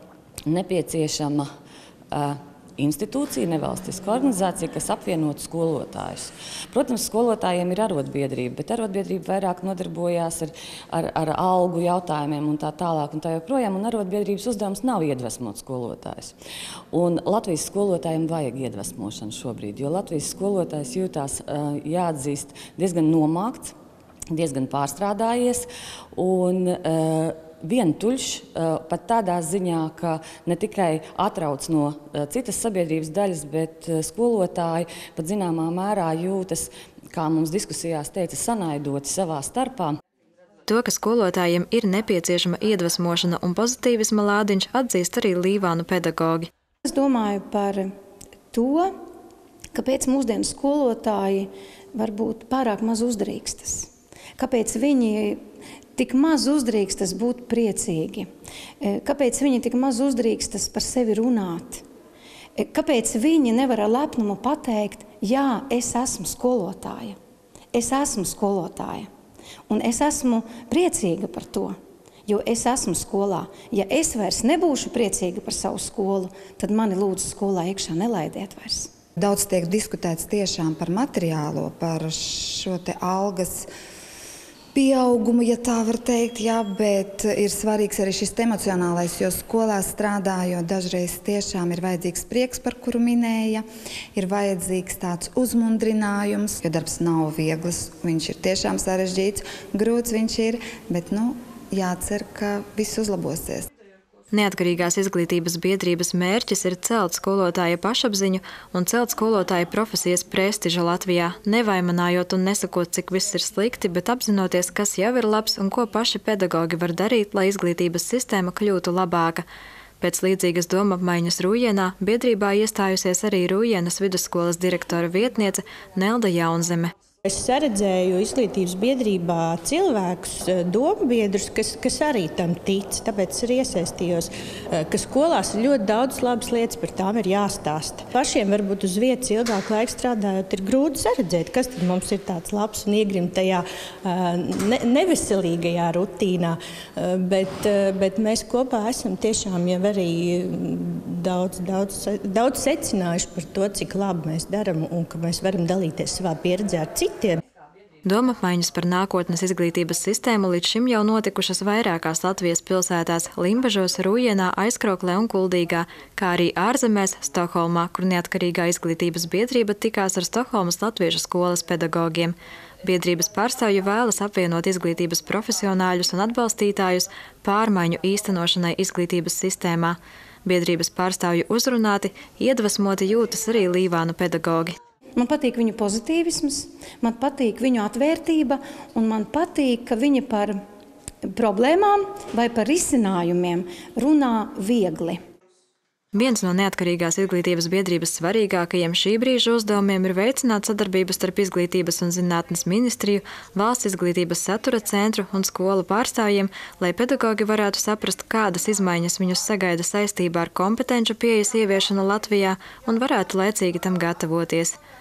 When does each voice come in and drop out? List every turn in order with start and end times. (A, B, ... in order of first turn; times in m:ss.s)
0:00.5-0:01.5 A
0:02.1-0:16.4 A
0:16.9-0:23.8 A
0:24.3-0:40.0 A
0:40.7-0:46.5 B
0:46.8-0:47.9 C
0:48.5-0:48.9 C
0:49.7-0:55.4 C
0:56.0-0:58.3 C
0:58.8-1:01.8 C
1:02.6-1:07.2 C
1:07.7-1:09.1 C
1:09.7-1:18.9 C
1:19.2-1:23.7 D
1:24.7-1:33.6 D
1:34.2-1:43.7 D
1:44.3-1:59.4 B
2:00.0-2:06.9 B
2:07.2-2:37.4 E
2:38.0-3:04.8 B
3:05.2-3:10.6 C
3:11.3-3:15.2 C
3:16.1-3:34.8 B